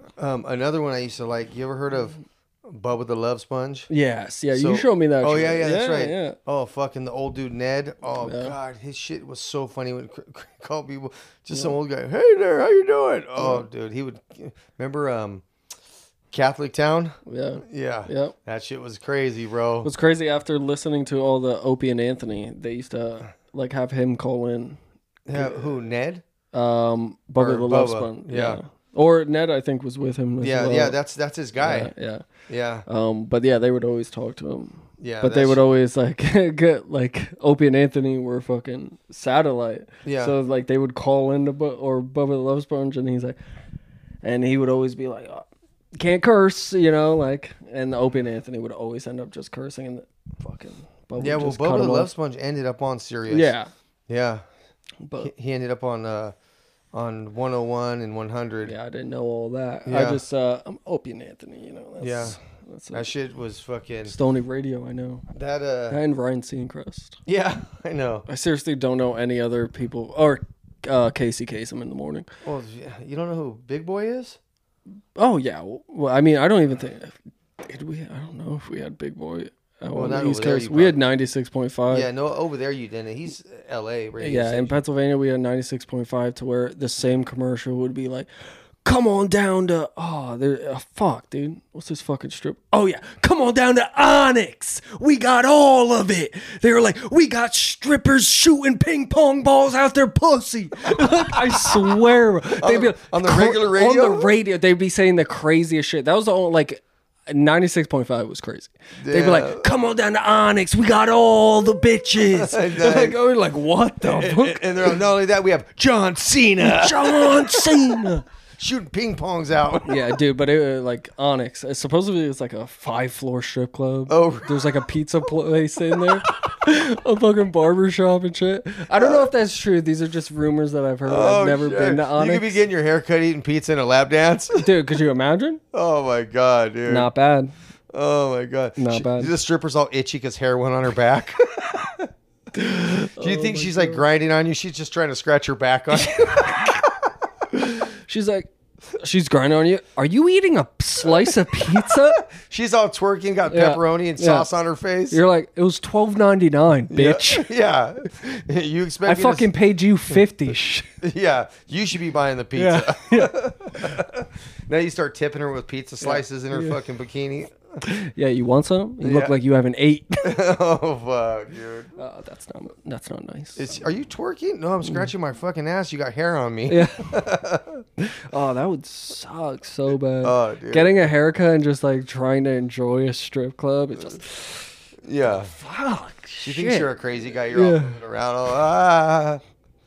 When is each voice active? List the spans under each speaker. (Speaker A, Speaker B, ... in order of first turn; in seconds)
Speaker A: 0.2-3.9, 4.5-15.4, 16.3-19.9, 25.3-26.2, 27.4-28.6, 30.4-31.9, 32.5-32.9, 35.0-35.7, 40.0-40.4, 51.2-53.5, 54.1-54.4, 55.2-56.3, 56.9-58.7, 59.9-60.2, 62.0-62.4, 62.9-64.2, 65.3-66.0, 67.3-68.3, 72.4-74.4, 80.0-81.0, 81.9-84.8, 101.0-102.0, 102.5-104.3, 109.0-109.7, 112.3-113.2, 114.0-118.0, 118.6-120.2, 124.1-124.9, 128.9-129.3, 131.1-134.7, 135.7-137.1, 137.9-147.1, 151.0-155.2, 156.9-159.5, 161.0-167.6, 169.0-169.3, 170.2-171.9, 173.6-177.8, 180.2-180.9, 185.0-185.5, 186.4-189.4
Speaker B: 3.9-6.4, 8.2-8.6, 13.4-13.7, 17.3-18.4, 19.8-24.8, 25.3-25.6, 26.5-31.0, 31.6-32.3, 32.9-43.4, 44.2-52.1, 53.3-53.7, 55.0-55.3, 58.6-63.0, 64.1-65.2, 65.9-67.2, 68.3-72.3, 75.2-82.1, 84.2-88.3, 88.8-114.9, 116.6-118.3, 119.9-132.6, 134.6-135.6, 136.9-137.5, 138.8-139.3, 142.6-144.1, 145.9-146.8, 147.5-152.2, 153.5-154.5, 155.1-157.5, 159.1-160.9, 162.6-164.0, 166.0-166.8, 167.8-170.4, 172.0-173.7, 176.7-177.2, 178.0-184.8, 185.4-186.9, 187.5-188.0